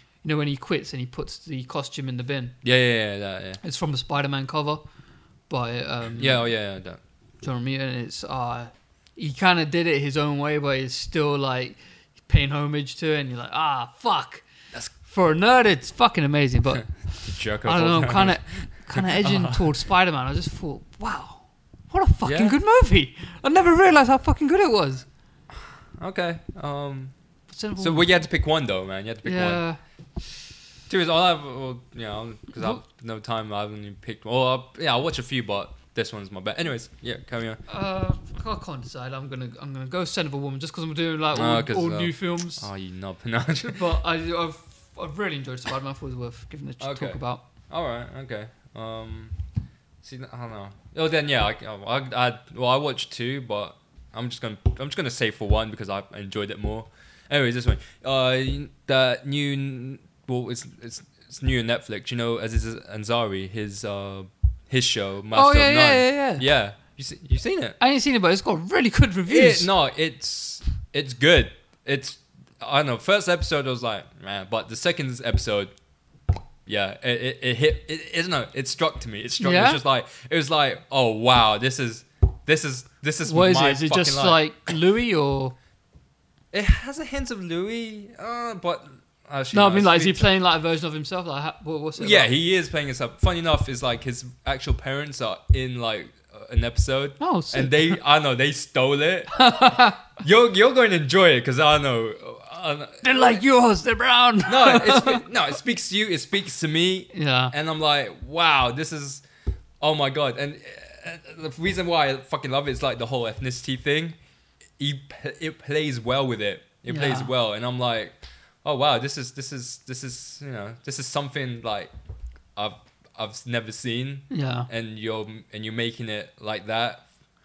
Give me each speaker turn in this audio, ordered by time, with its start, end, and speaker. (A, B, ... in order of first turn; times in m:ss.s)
0:00.2-0:02.6 A
0:02.6-0:03.6 B
0:03.6-0:04.8 A
0:05.5-0:06.4 A
0:06.2-0:07.0 B
0:07.4-0:14.4 A
0:15.0-0:25.0 A
0:17.2-0:19.7 B
0:22.2-0:22.6 B
0:25.5-0:27.1 B
0:27.5-0:28.2 A
0:27.8-0:29.6 B
0:29.2-0:29.8 A
0:30.9-0:37.6 B
0:37.7-0:42.7 A
0:41.3-0:43.8 B
0:43.6-0:47.4 A
0:46.8-0:49.4 B
0:50.0-1:07.8 B
1:05.3-1:06.4 A
1:07.8-1:09.7 A
1:09.3-1:15.7 B
1:16.7-1:24.4 B
1:19.4-1:19.8 A
1:23.2-1:25.6 A
1:26.5-1:30.3 B
1:29.5-1:32.3 A
1:32.0-1:39.5 B
1:37.2-1:38.0 A
1:39.3-1:40.1 A
1:40.1-1:43.4 B
1:43.0-1:45.2 A
1:44.5-1:49.2 B
1:47.1-1:47.5 A
1:49.8-1:54.2 B
1:54.8-2:01.9 B
1:56.9-1:57.3 A
2:02.6-2:07.0 B
2:04.3-2:04.7 A